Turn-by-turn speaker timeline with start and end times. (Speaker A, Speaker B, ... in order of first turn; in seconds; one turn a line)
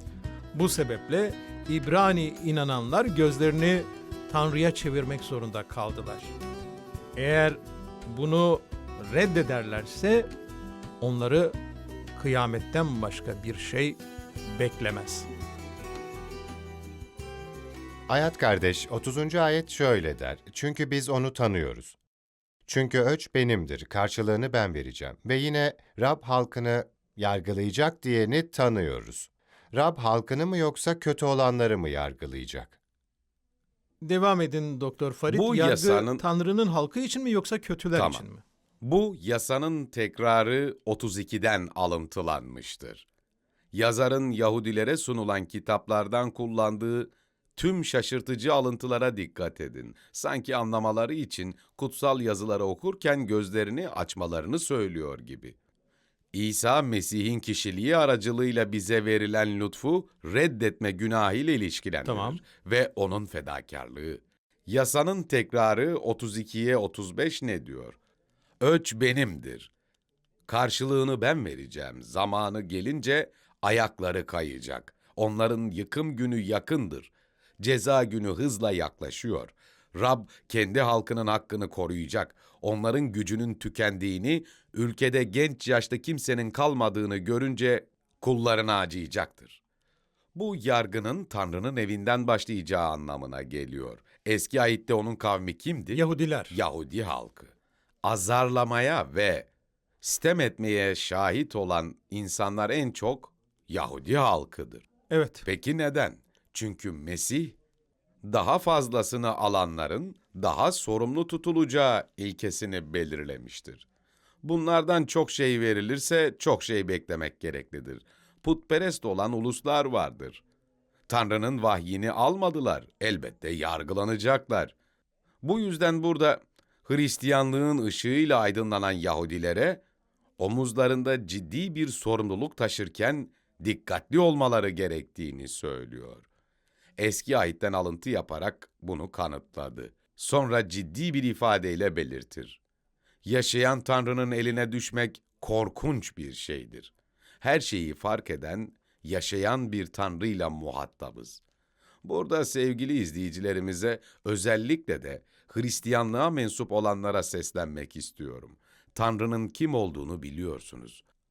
Speaker A: 0.5-6.3
Speaker A: 7.2-10.3
Speaker A: 11.0-11.6
Speaker A: 12.2-14.0
Speaker A: 14.5-15.3
Speaker B: 18.1-22.0
Speaker B: 22.7-32.8
Speaker A: 34.0-38.4
Speaker C: 35.3-36.2
Speaker C: 38.0-38.2
Speaker C: 38.8-43.0
Speaker C: 43.7-55.5
Speaker C: 56.3-68.0
Speaker A: 62.0-62.4
Speaker C: 68.6-69.7
Speaker C: 70.5-89.6
Speaker C: 90.3-97.5
Speaker A: 95.9-96.6
Speaker C: 98.0-99.5
Speaker C: 100.0-104.9
Speaker A: 105.1-105.5
Speaker C: 105.5-107.6
Speaker C: 108.2-113.8
Speaker C: 114.4-120.4
Speaker C: 121.1-124.7
Speaker C: 125.4-129.8
Speaker C: 130.4-136.3
Speaker C: 137.0-142.6
Speaker C: 143.2-151.4
Speaker C: 152.0-161.0